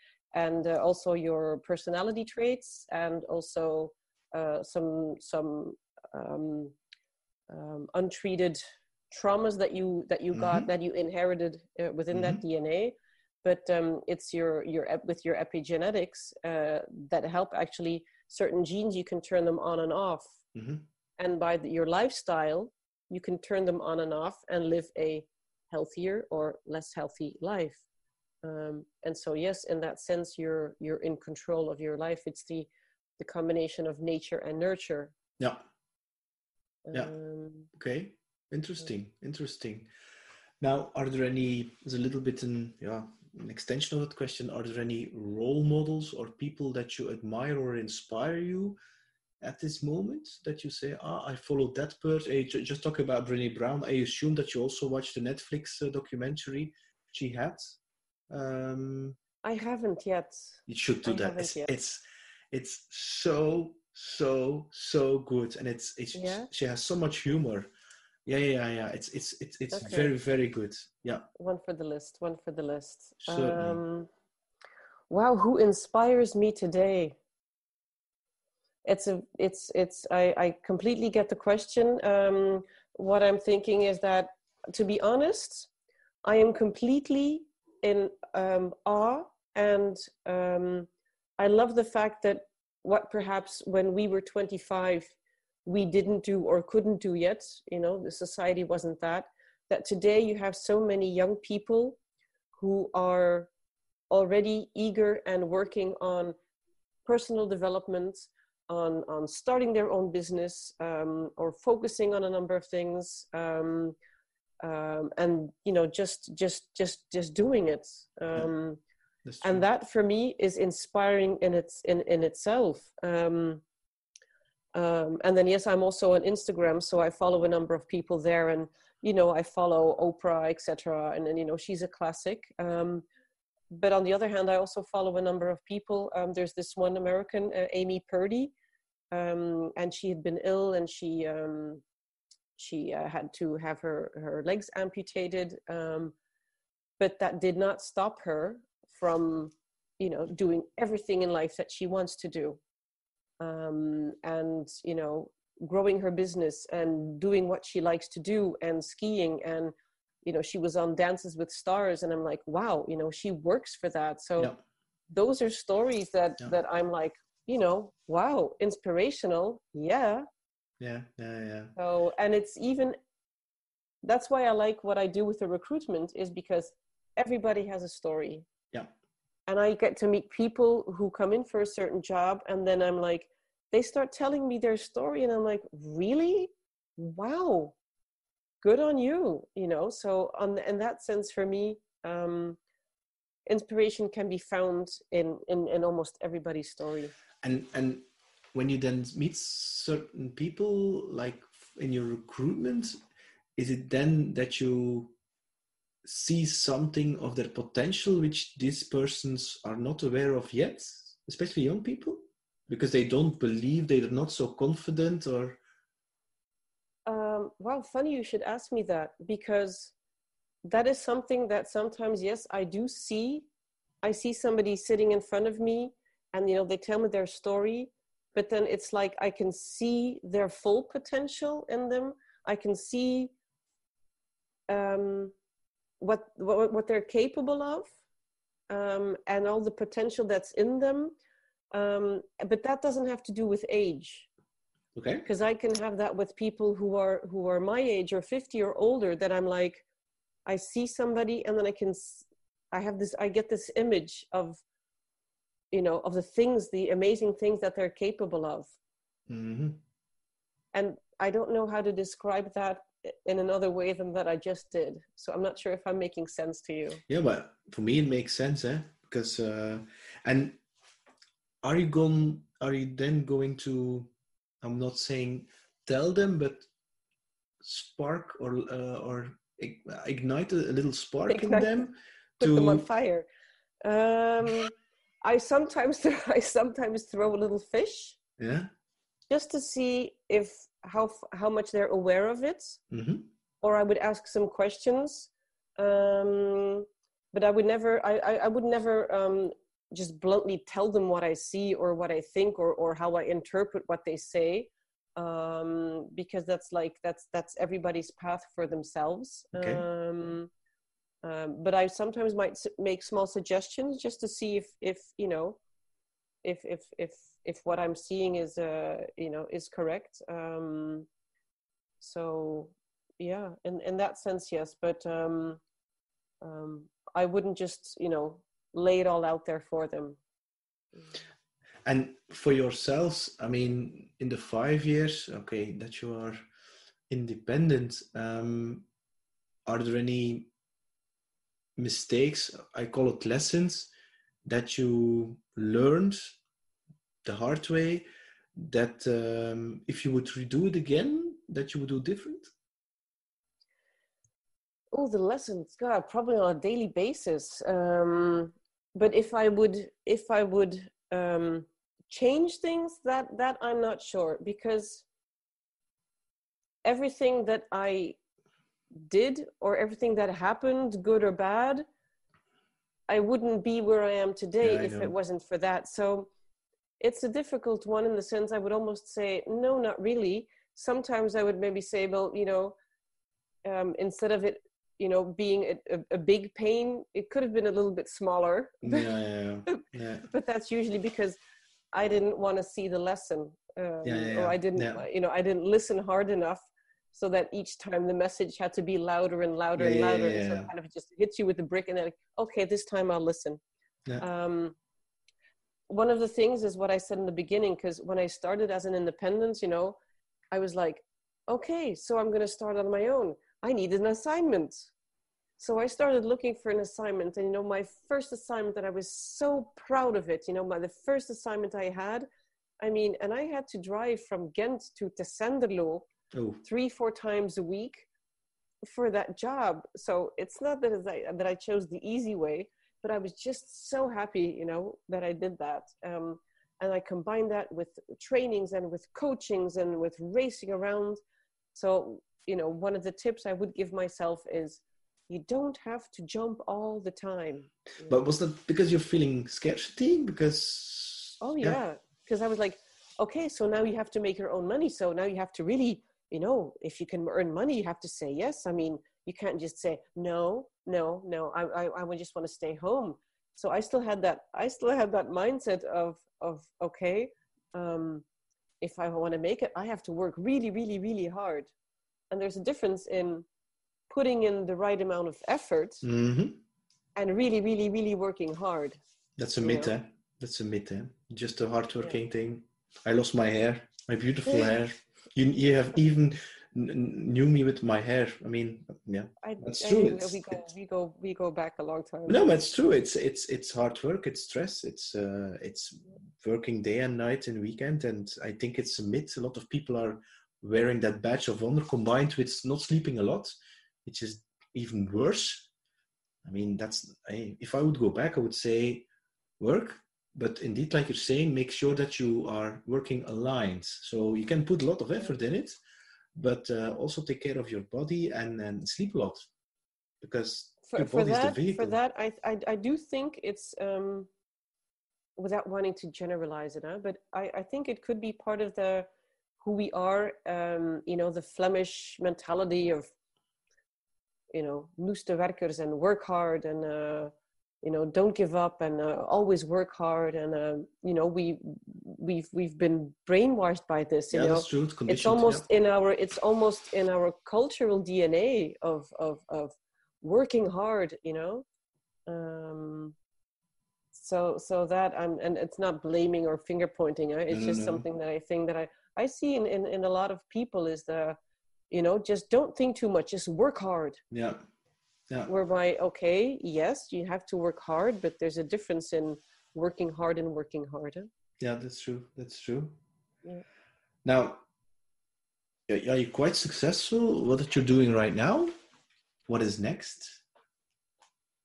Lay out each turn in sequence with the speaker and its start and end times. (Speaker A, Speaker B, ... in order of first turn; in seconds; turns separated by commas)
Speaker A: 0.3-6.8, Speaker A: 7.5-20.4, Speaker B: 10.3-10.7, Speaker B: 12.1-12.4, Speaker B: 20.6-20.9, Speaker A: 21.2-27.8, Speaker A: 28.4-35.1, Speaker B: 35.4-35.6, Speaker A: 36.9-37.7, Speaker B: 37.7-39.9, Speaker B: 40.6-48.8, Speaker B: 49.4-57.8, Speaker B: 58.3-59.2, Speaker A: 59.4-61.7, Speaker B: 60.7-67.7, Speaker A: 66.1-66.5, Speaker B: 68.3-71.2, Speaker A: 69.7-70.1, Speaker A: 71.3-74.1, Speaker B: 73.2-73.8, Speaker A: 75.1-77.2, Speaker A: 78.8-85.7, Speaker A: 86.2-95.1, Speaker A: 95.7-102.0, Speaker A: 102.6-103.5, Speaker A: 104.1-106.3, Speaker A: 107.1-114.0, Speaker A: 114.6-118.8, Speaker B: 119.2-119.7, Speaker A: 119.4-123.6, Speaker A: 124.8-133.1, Speaker A: 133.7-138.5, Speaker A: 139.1-141.8, Speaker A: 142.6-146.2, Speaker A: 147.0-152.6, Speaker A: 153.4-159.7, Speaker A: 160.2-164.5, Speaker A: 165.1-170.3, Speaker B: 170.8-171.7, Speaker A: 171.8-173.0, Speaker A: 174.0-178.5, Speaker A: 179.5-187.8, Speaker A: 188.6-192.6, Speaker A: 193.5-197.1, Speaker B: 197.4-203.0, Speaker B: 203.6-205.2, Speaker B: 206.0-215.6, Speaker A: 217.1-219.9, Speaker A: 220.7-223.5, Speaker A: 224.0-233.3, Speaker A: 234.7-235.3, Speaker A: 236.0-237.9, Speaker A: 238.7-241.2, Speaker A: 241.7-244.3, Speaker B: 244.9-245.3, Speaker A: 245.2-249.8, Speaker A: 250.5-254.6, Speaker A: 255.7-258.7, Speaker B: 259.3-259.8, Speaker A: 260.7-267.0, Speaker B: 267.1-270.6, Speaker B: 271.6-274.1, Speaker B: 274.6-276.7, Speaker B: 277.6-282.9, Speaker A: 281.3-281.9, Speaker A: 282.4-283.3, Speaker A: 283.8-288.2, Speaker B: 288.4-288.7, Speaker A: 289.3-292.8, Speaker B: 292.9-293.3, Speaker A: 293.6-310.5, Speaker B: 309.5-309.8, Speaker A: 311.2-315.6, Speaker A: 316.4-321.1, Speaker A: 322.0-325.6, Speaker A: 326.4-330.2, Speaker B: 331.9-336.4, Speaker B: 337.1-338.9, Speaker B: 339.7-340.5, Speaker B: 341.8-343.9, Speaker B: 344.4-346.4, Speaker B: 347.2-352.5, Speaker A: 354.9-365.1, Speaker A: 366.9-368.2, Speaker A: 368.9-371.9, Speaker A: 373.1-376.3, Speaker B: 374.6-375.1, Speaker A: 377.0-382.8, Speaker A: 383.6-389.1, Speaker B: 388.8-390.3, Speaker A: 389.7-391.4, Speaker A: 391.9-403.6, Speaker B: 394.0-395.1, Speaker B: 399.8-400.7, Speaker A: 404.2-404.8, Speaker A: 405.9-410.0, Speaker A: 410.5-414.9, Speaker A: 415.6-422.3, Speaker A: 422.8-426.1, Speaker B: 426.3-426.6, Speaker A: 426.6-428.1, Speaker A: 428.9-441.2, Speaker A: 441.8-448.2, Speaker B: 448.1-451.8, Speaker A: 451.4-468.2, Speaker A: 468.8-471.7, Speaker A: 472.3-473.5, Speaker A: 474.1-476.1, Speaker B: 476.0-476.6, Speaker A: 477.2-479.0, Speaker B: 479.4-490.7, Speaker A: 479.6-479.9, Speaker A: 484.5-484.8, Speaker A: 489.4-492.6, Speaker B: 492.3-503.5, Speaker B: 504.1-505.7, Speaker B: 506.4-509.1, Speaker B: 509.6-515.8, Speaker B: 516.4-519.4, Speaker B: 520.2-522.0, Speaker A: 520.9-524.3, Speaker A: 525.4-529.1, Speaker A: 529.6-533.1, Speaker A: 534.5-537.3, Speaker A: 537.8-551.7, Speaker B: 544.3-545.6, Speaker A: 552.3-553.1, Speaker A: 554.1-561.4, Speaker B: 557.5-558.0, Speaker A: 561.9-564.2, Speaker B: 564.3-564.6, Speaker A: 565.5-571.3, Speaker B: 571.6-573.0, Speaker B: 574.2-574.6, Speaker B: 575.9-578.7, Speaker B: 579.5-580.4